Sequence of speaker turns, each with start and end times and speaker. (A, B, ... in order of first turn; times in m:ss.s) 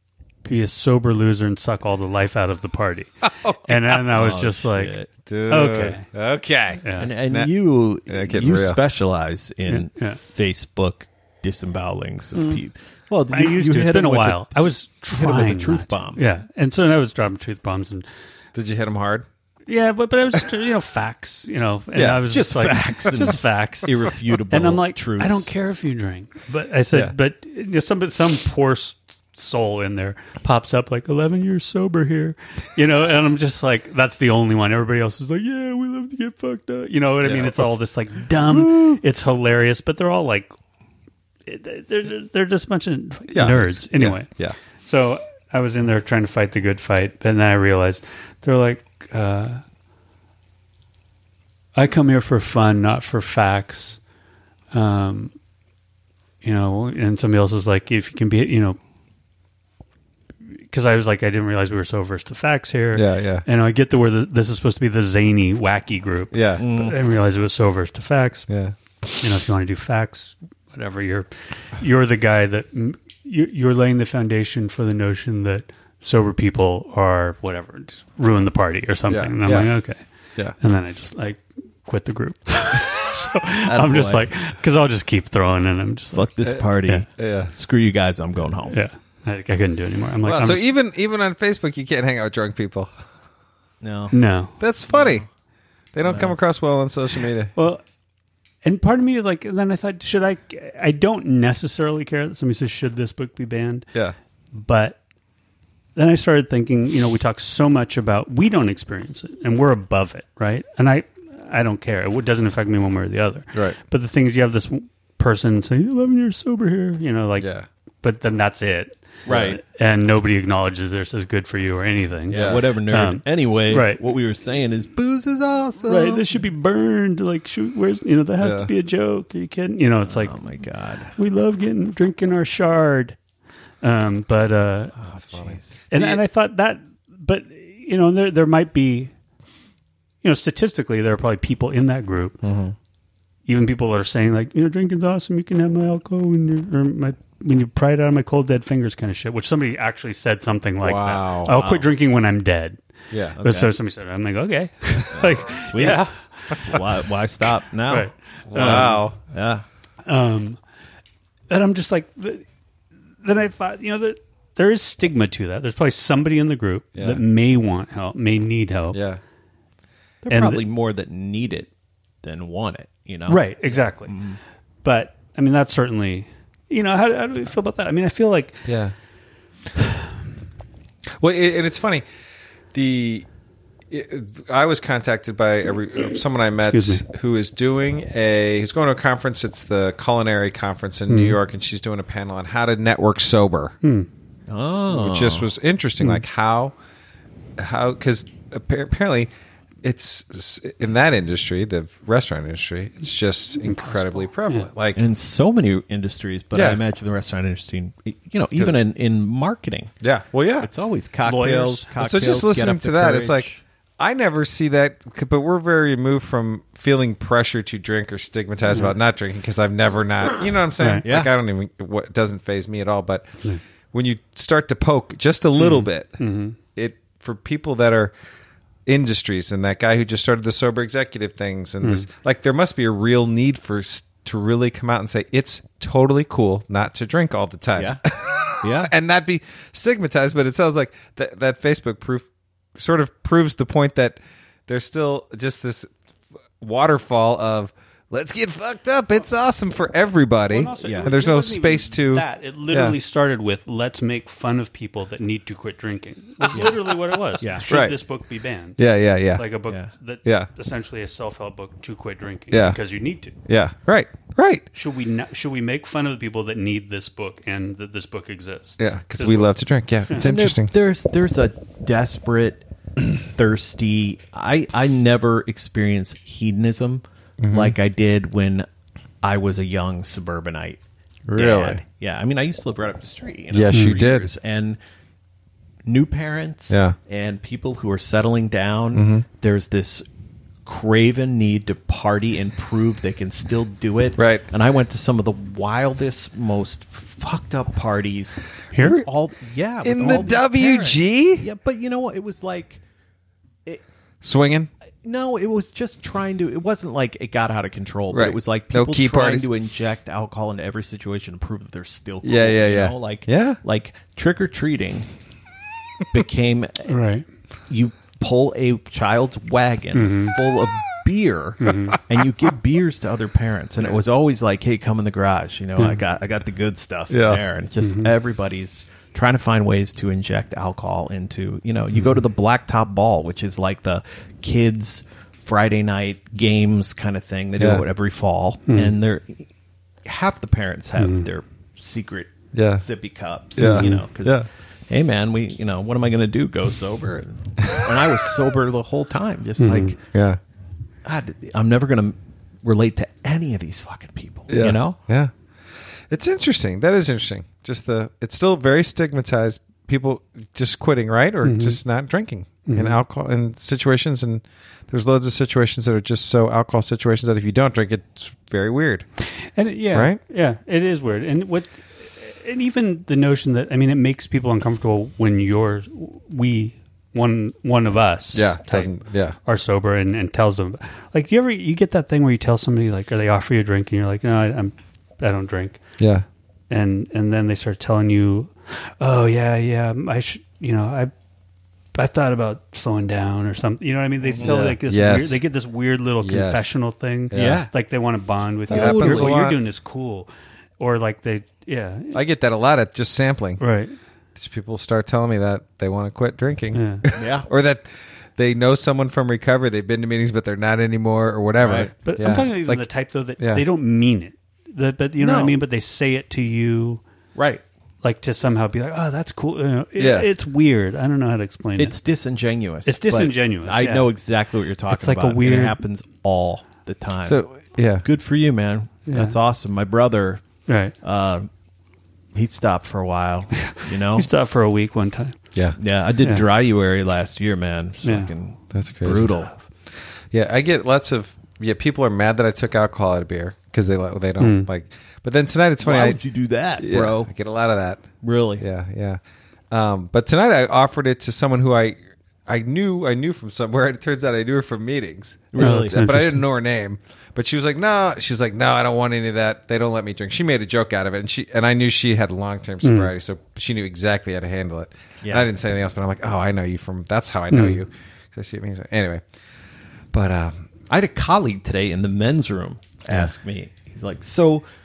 0:00.4-0:05.0 A
0:03.2-0:03.8 B
0:04.1-0:05.1 C
0:05.3-0:07.5 B
0:05.5-0:06.0 A
0:06.8-0:07.1 A
0:07.0-0:16.2 C
0:08.1-0:08.8 B
0:09.7-0:10.2 A
0:13.3-0:18.0 A
0:18.6-0:19.3 B
0:19.7-0:23.9 A
0:21.9-0:22.2 B
0:22.3-0:25.5 C
0:24.5-0:40.5 A
0:37.2-0:37.7 B
0:38.6-0:38.9 B
0:41.4-0:44.3 A
0:43.3-0:44.6 B
0:44.8-0:49.6 A
0:51.7-0:54.0 A
0:54.7-0:55.3 A
0:56.4-0:58.8 A
1:00.7-1:08.5 A
1:02.9-1:03.4 B
1:06.3-1:06.6 B
1:06.6-1:07.0 C
1:08.5-1:08.8 B
1:09.2-1:20.0 A
1:19.1-1:19.7 B
1:20.6-1:26.3 A
1:23.6-1:24.3 C
1:26.1-1:28.8 C
1:26.4-1:27.5 B
1:28.7-1:30.7 A
1:30.2-1:32.9 B
1:33.8-1:34.2 C
1:34.1-1:34.6 A
1:34.6-1:35.3 B
1:34.9-1:35.2 C
1:35.9-1:37.5 B
1:36.0-1:36.4 C
1:37.6-1:37.8 A
1:38.6-1:43.9 A
1:44.5-1:45.0 A
1:46.0-1:57.5 A
1:57.4-1:57.6 B
1:58.0-2:04.0 A
1:59.3-1:59.6 B
1:59.3-1:59.6 C
2:02.3-2:02.6 B
2:02.3-2:06.3 C
2:05.9-2:10.4 A
2:08.4-2:08.7 B
2:10.1-2:11.1 C
2:11.2-2:13.2 A
2:13.8-2:15.0 A
2:15.0-2:15.8 C
2:15.2-2:16.2 B
2:15.9-2:19.1 A
2:20.2-2:22.4 A
2:22.4-2:22.7 C
2:23.5-2:32.8 A
2:30.8-2:31.6 B
2:31.5-2:31.9 C
2:33.1-2:33.4 B
2:33.4-2:36.6 A
2:33.4-2:33.7 C
2:35.1-2:39.6 C
2:37.9-2:39.0 A
2:38.5-2:39.2 B
2:40.0-2:40.6 A
2:41.5-2:42.4 A
2:43.2-2:49.0 A
2:47.0-2:47.2 B
2:48.9-2:49.2 B
2:50.2-2:51.7 C
2:50.3-2:50.6 A
2:52.2-2:53.4 C
2:53.3-2:54.2 A
2:54.0-2:54.4 C
2:54.8-2:58.6 A
2:58.6-2:58.9 B
3:01.2-3:02.0 B
3:02.7-3:03.3 B
3:03.9-3:13.7 B
3:06.6-3:07.0 A
3:11.1-3:11.4 A
3:13.8-3:14.1 A
3:14.5-3:15.5 C
3:14.7-3:16.7 B
3:17.6-3:19.3 B
3:19.8-3:25.0 B
3:23.6-3:24.7 A
3:24.9-3:29.9 C
3:26.5-3:26.8 B
3:30.0-3:30.7 B
3:30.6-3:33.6 C
3:31.2-3:31.9 A
3:32.0-3:46.2 B
3:38.7-3:38.9 A
3:40.8-3:41.0 A
3:41.0-3:41.3 C
3:45.6-3:46.6 A
3:46.8-3:48.1 B
3:48.9-4:05.9 B
3:57.8-3:58.0 C
3:58.6-3:58.9 C
4:06.6-4:13.0 B
4:10.5-4:18.8 A
4:10.8-4:11.1 C
4:17.4-4:17.7 C
4:17.6-4:18.0 B
4:18.8-4:19.4 B
4:19.3-4:23.3 A
4:22.5-4:22.8 B
4:23.4-4:24.7 B
4:24.7-4:29.5 A
4:28.8-4:30.7 B
4:30.1-4:38.6 C
4:37.4-4:37.8 B
4:39.2-4:40.8 C
4:41.3-4:41.8 B
4:41.3-4:44.8 C
4:43.5-4:44.3 B
4:43.7-4:44.0 A
4:45.9-4:50.0 C
4:46.7-4:47.0 B
4:48.9-4:49.2 B
4:50.6-5:02.8 C
4:54.2-4:54.4 B
4:58.7-4:59.0 A
4:59.8-5:01.5 B
5:04.2-5:04.7 B
5:05.0-5:15.1 C
5:08.1-5:09.5 B
5:12.2-5:13.6 B
5:16.1-5:17.0 C
5:16.9-5:17.2 A
5:17.7-5:39.5 C
5:19.9-5:20.4 A
5:21.6-5:22.0 A
5:27.1-5:27.4 B
5:27.8-5:28.1 A
5:37.6-5:37.8 B
5:38.7-5:38.9 A
5:40.0-5:50.0 C
5:41.0-5:41.3 A
5:42.5-5:42.8 B
5:43.6-5:44.4 B
5:43.6-5:44.0 A
5:49.6-5:49.9 A
5:50.1-5:50.4 B
5:51.0-5:55.0 C
5:54.5-5:55.3 B
5:56.1-6:09.0 B
6:01.4-6:01.8 A
6:02.6-6:03.0 A
6:09.6-6:25.8 A
6:09.9-6:10.2 B
6:18.3-6:19.4 B
6:26.0-6:26.2 B
6:26.7-6:31.1 A
6:31.9-6:40.3 A
6:34.4-6:35.4 B
6:36.2-6:36.7 B
6:37.3-6:37.6 B
6:37.3-6:37.7 C
6:38.7-6:39.4 C
6:38.7-6:39.6 B
6:40.8-6:42.2 A
6:42.1-6:43.6 B
6:43.6-6:43.9 A
6:44.4-6:52.8 B
6:46.7-6:47.0 A
6:47.1-6:47.5 C
6:51.6-6:51.9 C
6:52.0-6:57.0 A
6:53.4-6:53.6 B
6:55.2-6:55.6 C
6:57.4-6:57.6 C
6:58.0-7:02.0 A
7:00.0-7:00.3 B
7:01.8-7:07.4 C
7:02.9-7:04.1 A
7:04.9-7:05.8 A
7:07.2-7:08.0 B
7:08.0-7:10.4 C
7:09.1-7:09.4 A
7:10.7-7:10.9 A
7:11.0-7:11.5 C
7:12.3-7:14.3 C
7:13.6-7:15.4 A
7:15.8-7:19.5 C
7:18.0-7:18.3 A
7:18.7-7:19.4 B
7:19.9-7:26.2 B
7:24.4-7:24.7 A
7:25.8-7:27.3 C
7:26.8-7:28.0 B
7:28.2-7:28.6 C
7:28.6-7:29.2 B
7:29.7-7:49.2 B
7:35.5-7:36.0 C
7:35.6-7:36.4 A
7:42.8-7:43.1 A
7:45.2-7:45.5 C
7:47.5-7:47.8 A
7:50.1-7:50.7 B
7:50.9-7:54.6 C